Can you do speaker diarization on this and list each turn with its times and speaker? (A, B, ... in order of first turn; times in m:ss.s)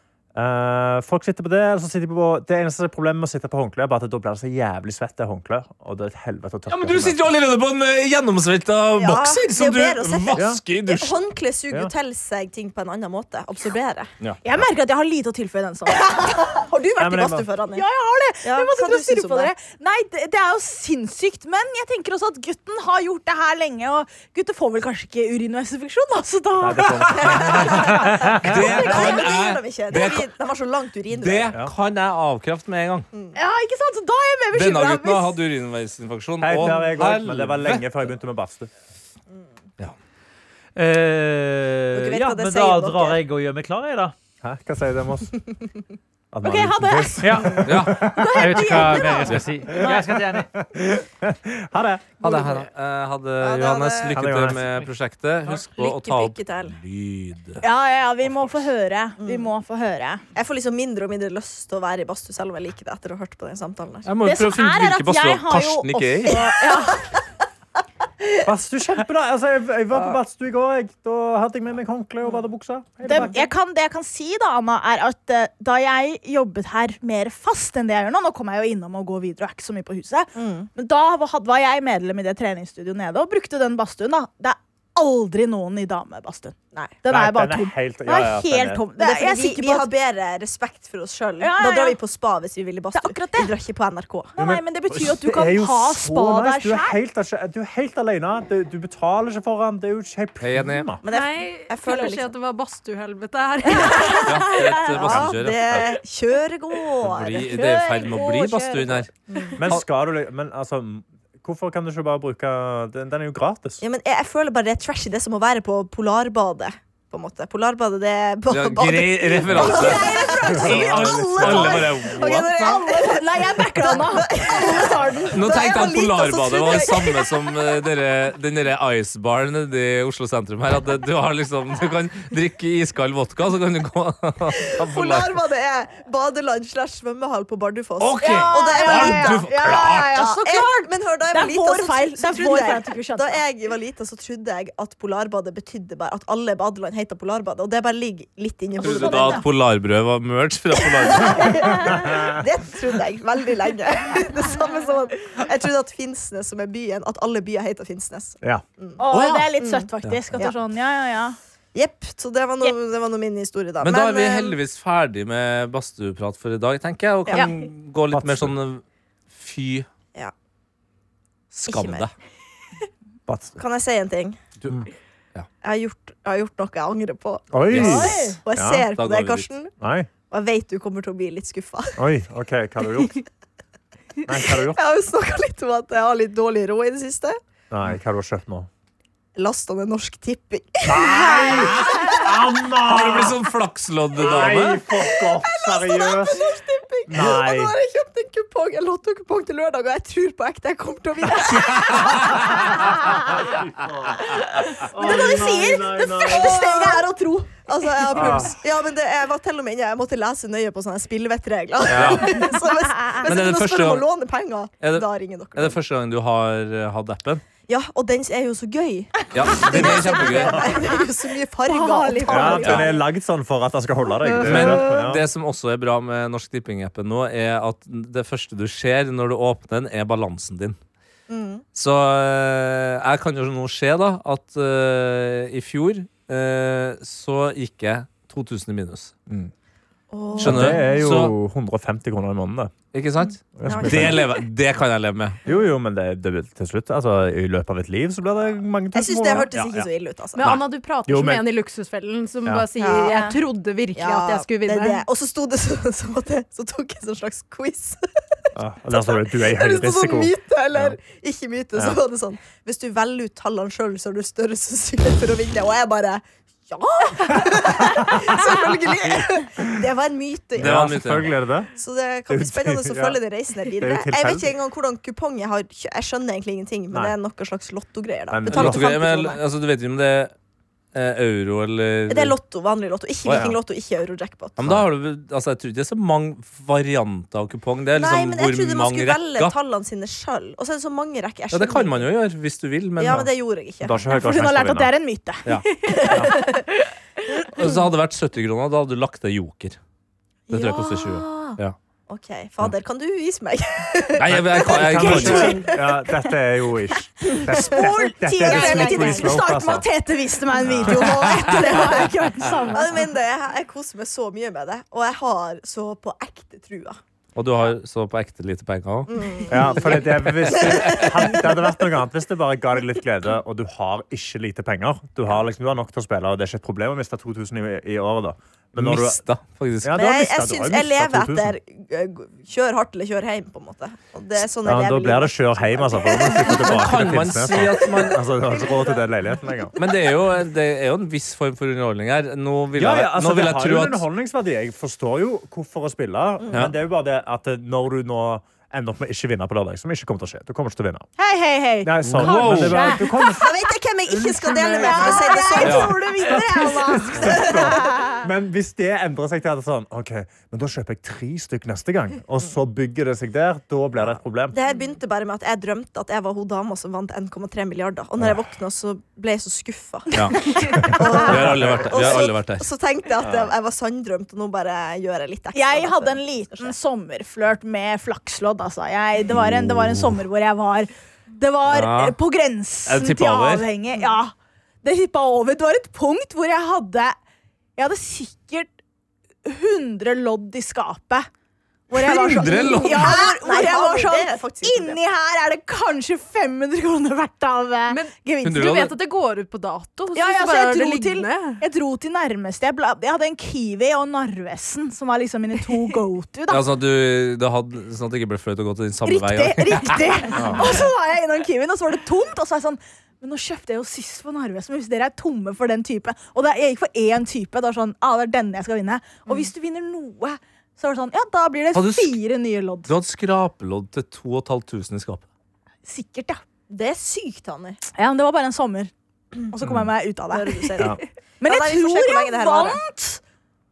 0:00.4-0:07.3 A
0:06.7-0:11.2 B
0:09.0-0:14.1 C
0:10.3-0:10.6 A
0:14.4-0:16.1 D
0:16.0-0:17.8 C
0:17.0-0:17.5 A
0:17.7-0:27.2 D
0:18.4-0:19.5 C
0:26.6-0:28.6 A
0:27.1-0:31.6 C
0:27.2-0:30.3 B
0:31.1-0:33.1 B
0:33.4-0:35.4 D
0:34.5-0:37.9 B
0:36.4-0:38.7 A
0:40.8-0:44.1 E
0:41.9-0:43.2 C
0:44.4-0:45.3 A
0:46.3-0:48.8 A
0:46.4-0:49.9 D
0:47.2-0:50.5 E
0:47.6-0:48.2 B
0:49.7-0:52.4 A
0:52.2-0:57.6 B
0:53.4-0:54.2 C
0:54.1-0:54.8 A
0:55.5-0:56.8 C
0:57.6-1:00.2 D
0:59.2-0:59.5 C
1:00.4-1:04.1 C
1:04.0-1:06.4 B
1:04.2-1:07.0 D
1:06.3-1:07.2 C
1:08.4-1:13.5 A
1:13.1-1:29.9 D
1:20.4-1:20.7 C
1:27.1-1:28.8 A
1:29.0-1:34.4 C
1:31.4-1:32.0 D
1:32.9-1:33.5 D
1:34.4-1:37.0 D
1:34.4-1:41.0 A
1:40.4-1:40.9 B
1:41.0-1:42.3 C
1:41.1-1:44.4 F
1:43.7-1:48.3 C
1:44.3-1:45.9 B
1:45.0-1:45.8 A
1:47.0-1:49.1 B
1:47.6-1:48.8 D
1:49.3-1:49.6 C
1:49.6-1:53.8 A
1:53.8-2:07.8 C
1:58.5-2:02.8 B
1:59.5-2:02.2 A
2:02.6-2:05.4 D
2:05.3-2:15.4 B
2:14.6-2:29.4 C
2:18.0-2:20.3 B
2:18.2-2:23.4 D
2:28.8-2:31.8 B
2:28.9-2:29.4 D
2:30.8-2:39.0 C
2:39.0-2:41.4 D
2:39.1-2:39.5 B
2:39.6-2:40.5 C
2:41.7-2:44.6 C
2:43.8-2:49.9 B
2:47.3-2:47.5 C
2:48.1-2:48.6 A
2:51.5-2:52.1 B
2:51.7-2:52.0 C
2:53.3-2:53.6 A
2:53.6-2:54.4 C
2:55.6-2:59.7 C
2:57.5-2:58.9 A
2:57.7-2:58.1 B
2:57.8-2:58.4 D
2:59.0-2:59.5 B
2:59.8-3:00.1 A
3:00.3-3:02.0 C
3:02.0-3:03.2 A
3:04.3-3:04.8 A
3:04.5-3:07.4 C
3:07.7-3:08.7 A
3:09.4-3:12.6 C
3:10.8-3:13.4 A
3:11.6-3:12.0 B
3:12.9-3:14.8 B
3:14.2-3:16.4 A
3:14.4-3:23.5 C
3:17.1-3:17.8 A
3:22.9-3:26.7 A
3:24.8-3:27.0 D
3:26.2-3:35.8 C
3:28.1-3:28.5 A
3:31.9-3:32.4 B
3:33.2-3:34.0 B
3:34.8-3:37.4 B
3:37.7-3:43.0 C
3:39.3-3:40.7 B
3:41.7-3:43.0 D
3:42.3-3:45.2 A
3:44.3-3:44.8 C
3:44.4-3:50.8 B
3:51.3-3:51.6 C
3:51.7-3:59.1 B
4:00.1-4:01.1 C
4:00.4-4:01.4 B
4:00.4-4:02.7 A
4:02.9-4:05.4 B
4:03.6-4:04.3 A
4:03.6-4:04.4 C
4:05.5-4:09.9 A
4:08.9-4:10.6 C
4:10.4-4:15.0 F
4:11.1-4:11.5 A
4:12.8-4:13.4 C
4:13.9-4:18.0 C
4:18.6-4:21.0 A
4:18.9-4:30.9 C
4:27.6-4:29.2 A
4:30.6-4:31.7 A
4:30.6-4:31.3 B
4:31.8-4:39.4 C
4:32.3-4:33.2 A
4:33.8-4:34.6 A
4:38.3-4:39.0 A
4:38.5-4:40.3 B
4:40.9-4:42.4 B
4:42.1-4:44.6 C
4:43.2-4:43.6 B
4:44.6-4:49.6 B
4:47.9-4:52.1 C
4:51.5-4:53.3 B
4:53.0-4:54.0 C
4:53.8-4:54.9 A
4:54.1-4:55.5 D
4:55.5-4:56.3 B
4:56.0-4:56.6 C
4:57.5-4:59.8 B
5:00.5-5:01.6 C
5:00.5-5:01.8 B
5:02.1-5:05.7 C
5:04.2-5:05.6 B
5:04.3-5:09.9 A
5:04.9-5:05.7 D
5:07.3-5:07.8 C
5:07.4-5:13.0 D
5:08.4-5:09.4 C
5:10.6-5:11.2 A
5:10.7-5:17.0 C
5:17.4-5:21.1 B
5:19.1-5:21.6 C
5:19.5-5:29.2 A
5:28.8-5:30.0 B
5:29.8-5:31.6 A
5:30.0-5:37.2 C
5:34.6-5:39.8 A
5:36.6-5:38.2 B
5:37.9-5:39.0 C
5:39.8-5:44.0 B
5:42.8-5:51.1 A
5:51.2-5:53.5 D
5:51.8-5:53.5 A
5:52.0-5:53.0 B
5:53.3-5:56.4 C
5:54.1-6:04.6 A
5:54.4-5:57.8 D
5:55.6-5:55.9 B
5:57.1-5:58.2 C
6:04.5-6:16.8 C
6:08.2-6:08.4 A
6:10.1-6:12.7 B
6:11.3-6:12.0 A
6:13.2-6:13.5 A
6:15.5-6:27.2 D
6:19.3-6:20.2 A
6:21.7-6:22.2 B
6:22.9-6:23.7 B
6:27.8-6:28.7 D
6:29.4-6:31.3 D
6:31.9-6:38.8 D
6:31.9-6:35.0 C
6:32.1-6:33.2 B
6:37.9-6:41.6 F
6:38.4-6:38.9 B
6:40.1-6:46.6 D
6:46.5-6:50.6 B
6:49.0-7:02.9 D
7:01.7-7:02.2 B
7:02.9-7:05.3 B
7:05.9-7:06.4 D
7:06.7-7:07.8 C
7:07.9-7:08.9 D
7:09.5-7:10.8 D
7:09.6-7:09.9 A
7:10.3-7:12.8 C
7:11.4-7:13.2 D